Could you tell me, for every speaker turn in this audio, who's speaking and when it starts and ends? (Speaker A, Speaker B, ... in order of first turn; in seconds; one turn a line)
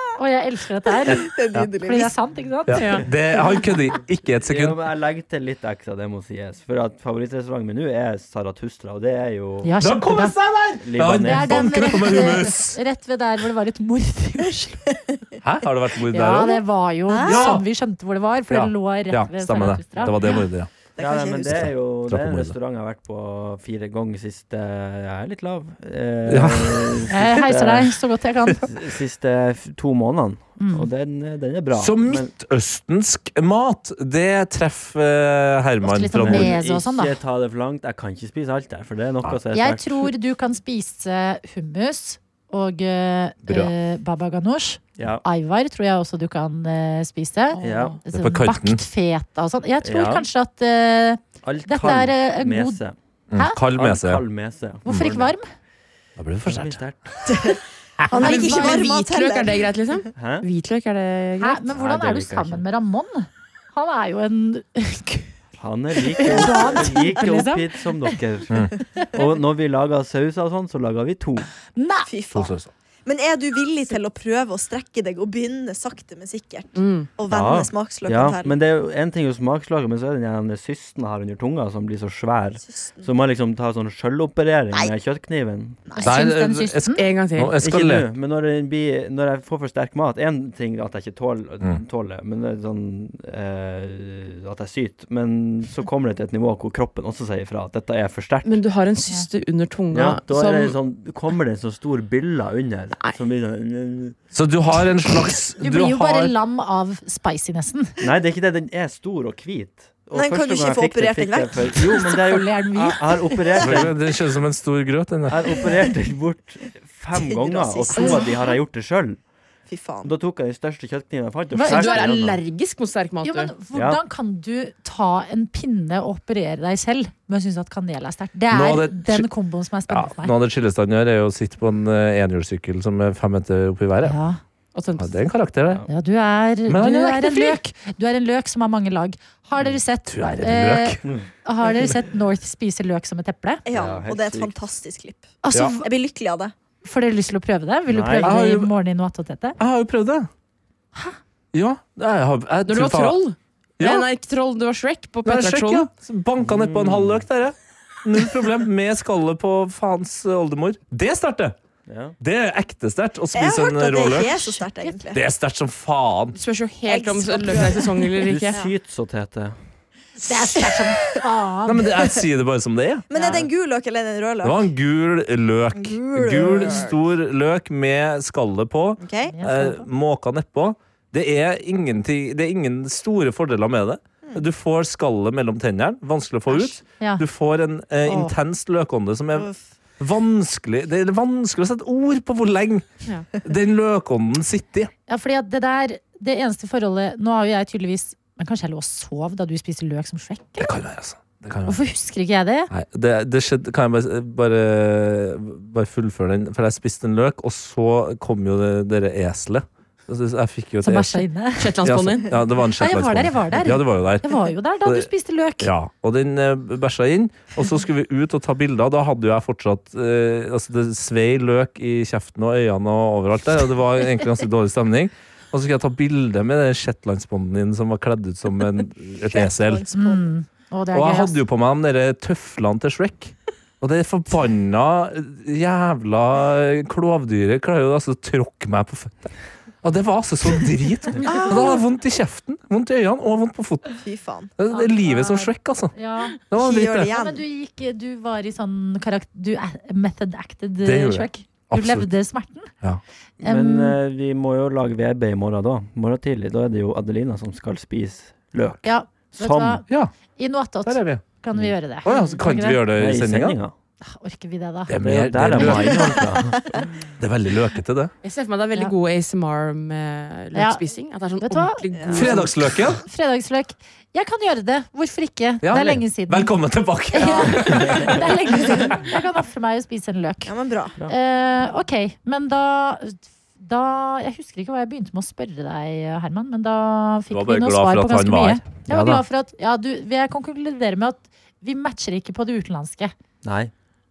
Speaker A: 0.2-2.9
Speaker B: 1.1-2.1
Speaker C: 2.7-4.8
Speaker D: 2.8-3.0
Speaker E: 4.5-9.7
Speaker A: 9.6-10.3
Speaker C: 9.8-12.8
Speaker E: 10.8-11.7
Speaker A: 11.2-14.8
Speaker C: 15.4-16.6
Speaker A: 16.1-20.4
Speaker B: 17.1-17.5
Speaker C: 17.2-17.6
Speaker C: 18.5-20.7
Speaker B: 20.9-21.7
Speaker E: 21.0-28.0
Speaker C: 21.9-22.5
Speaker C: 26.3-27.0
Speaker A: 27.1-28.6
Speaker E: 28.7-32.3
Speaker A: 30.6-30.9
Speaker C: 31.8-36.5
Speaker A: 35.8-37.1
Speaker E: 36.1-40.1
Speaker A: 39.5-52.8
Speaker C: 43.4-43.7
Speaker E: 45.0-45.2
Speaker E: 47.6-48.0
Speaker C: 48.1-48.8
Speaker E: 49.8-50.3
Speaker E: 51.4-53.0
Speaker C: 53.3-54.2
Speaker E: 53.8-55.3
Speaker A: 54.8-55.4
Speaker C: 54.9-55.2
Speaker C: 56.2-56.8
Speaker E: 56.4-57.5
Speaker B: 57.3-59.7
Speaker D: 58.1-61.6
Speaker A: 58.1-58.8
Speaker E: 60.1-60.5
Speaker A: 61.4-65.3
Speaker E: 61.7-62.6
Speaker E: 65.6-71.5
Speaker A: 66.1-68.2
Speaker A: 71.8-72.1
Speaker B: 72.1-72.5
Speaker C: 72.3-72.7
Speaker B: 73.0-78.5
Speaker D: 76.8-77.1
Speaker E: 77.3-85.8
Speaker B: 82.6-83.1
Speaker B: 85.9-86.1
Speaker A: 86.0-87.0
Speaker C: 86.0-88.1
Speaker D: 86.9-87.6
Speaker E: 87.6-98.6
Speaker D: 98.4-100.8
Speaker E: 99.9-104.2
Speaker C: 104.3-106.3
Speaker A: 105.6-108.0
Speaker E: 108.0-113.9
Speaker B: 110.1-111.9
Speaker A: 112.0-113.5
Speaker C: 113.6-115.4
Speaker E: 115.3-119.2
Speaker B: 117.1-118.4
Speaker B: 119.7-120.1
Speaker E: 120.0-122.4
Speaker A: 121.5-122.1
Speaker D: 121.6-123.5
Speaker A: 123.2-130.3
Speaker E: 123.7-124.0
Speaker C: 128.5-129.3
Speaker C: 129.9-134.2
Speaker A: 134.0-134.4
Speaker D: 134.7-135.3
Speaker C: 135.0-135.8
Speaker A: 135.9-143.6
Speaker C: 136.7-137.6
Speaker C: 140.1-141.0
Speaker B: 143.7-146.5
Speaker E: 143.7-144.5
Speaker A: 145.4-145.8
Speaker A: 146.8-149.6
Speaker E: 147.9-148.3
Speaker C: 148.2-148.7
Speaker C: 149.6-150.3
Speaker C: 151.5-153.2
Speaker D: 152.7-155.9
Speaker C: 153.8-154.1
Speaker C: 155.2-161.6
Speaker E: 156.4-157.3
Speaker E: 161.9-162.2
Speaker C: 162.2-164.6
Speaker B: 163.3-165.2
Speaker C: 165.1-166.4
Speaker D: 166.3-168.5
Speaker B: 166.9-168.0
Speaker E: 168.5-169.6
Speaker A: 170.2-172.0
Speaker C: 171.7-173.0
Speaker B: 173.1-174.7
Speaker D: 173.1-173.4
Speaker C: 174.4-192.8
Speaker B: 175.7-176.9
Speaker B: 179.0-179.3
Speaker A: 179.3-179.9
Speaker B: 186.5-186.8
Speaker A: 188.0-188.3
Speaker B: 189.3-189.6
Speaker C: 193.4-194.9
Speaker A: 195.1-200.7
Speaker C: 200.6-201.8
Speaker A: 201.7-202.7
Speaker C: 202.7-211.2
Speaker A: 210.8-211.7
Speaker D: 211.6-212.3
Speaker C: 211.8-215.1
Speaker A: 212.8-215.7
Speaker C: 215.6-229.9
Speaker B: 229.3-230.3
Speaker A: 229.9-231.4
Speaker C: 230.9-244.0
Speaker B: 241.2-241.8
Speaker B: 244.0-244.5
Speaker C: 244.6-245.9
Speaker A: 244.7-246.4
Speaker C: 246.5-247.1
Speaker B: 246.6-247.4
Speaker A: 247.0-252.7
Speaker C: 250.8-252.1
Speaker E: 253.4-259.8
Speaker A: 253.4-254.0
Speaker A: 258.8-259.8
Speaker A: 260.4-262.8
Speaker C: 260.8-261.2
Speaker C: 262.0-263.6
Speaker E: 262.9-263.7
Speaker A: 264.0-264.9
Speaker C: 264.9-266.3
Speaker E: 265.0-266.6
Speaker C: 267.2-268.1
Speaker D: 268.2-272.5
Speaker A: 270.5-270.8
Speaker A: 271.4-272.5
Speaker B: 271.9-272.2
Speaker C: 272.1-273.0
Speaker A: 273.0-276.5
Speaker C: 275.6-278.2
Speaker A: 277.1-280.5
Speaker E: 277.5-278.2
Speaker B: 280.4-281.0
Speaker A: 281.1-293.1
Speaker C: 287.3-289.2
Speaker E: 293.4-293.7